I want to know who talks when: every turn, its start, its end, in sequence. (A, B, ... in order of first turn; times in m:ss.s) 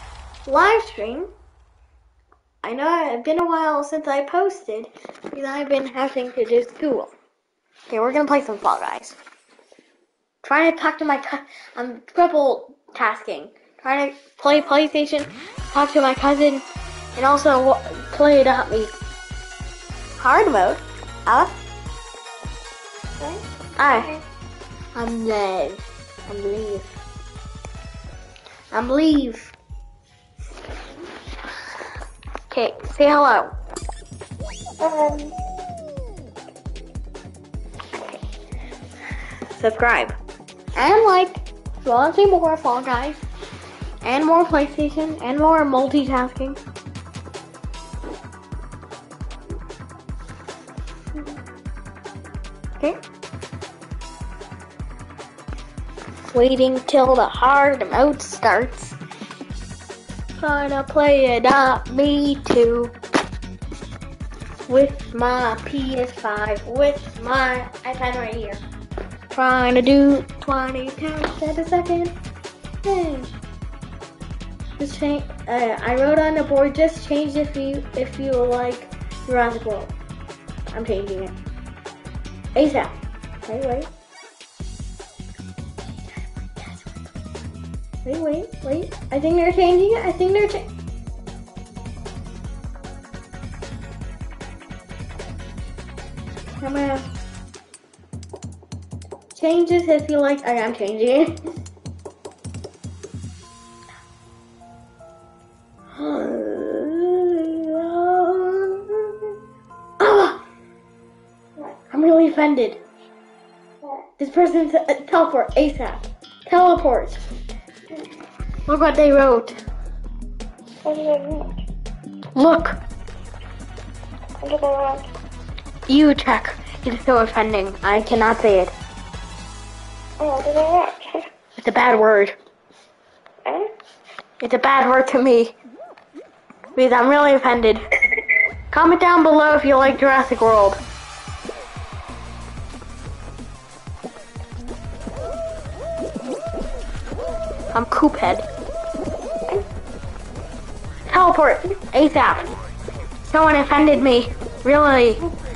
0:00.5-0:01.3 A
0:02.6-0:07.1 A
0:07.9-0:09.2 A
0:10.4-0:18.9 A
0:20.2-0:21.5 A
0:23.2-0:24.2 B
0:23.8-0:24.2 A
0:25.0-0:26.9 A
0:28.7-0:29.6 A
0:32.5-0:33.5 A
0:34.8-0:35.4 B
0:39.6-0:40.2 A
0:40.8-0:43.2 A
0:44.0-0:46.6 A
0:56.3-0:59.0 A
1:00.4-1:02.9 A
1:04.7-1:08.6 A
1:09.3-1:12.2 A
1:12.8-1:13.4 A
1:14.8-1:19.9 A
1:20.7-1:21.4 A
1:22.6-1:23.9 A
1:26.5-1:27.0 A
1:28.0-1:30.7 A
1:36.6-1:37.1 A
1:39.3-1:41.6 A
1:46.0-1:49.3 A
1:50.0-1:50.4 A
1:51.9-1:52.8 A
1:54.2-1:57.2 A
1:58.7-1:59.6 A
2:00.8-2:01.6 B
2:02.4-2:02.8 A
2:04.4-2:05.1 B
2:05.9-2:08.7 A
2:10.2-2:11.3 B
2:11.6-2:12.4 A
2:13.4-2:13.7 B
2:14.4-2:15.5 A
2:16.8-2:17.8 A
2:18.7-2:20.8 A
2:27.7-2:28.5 A
2:31.1-2:32.5 A
2:33.2-2:35.3 A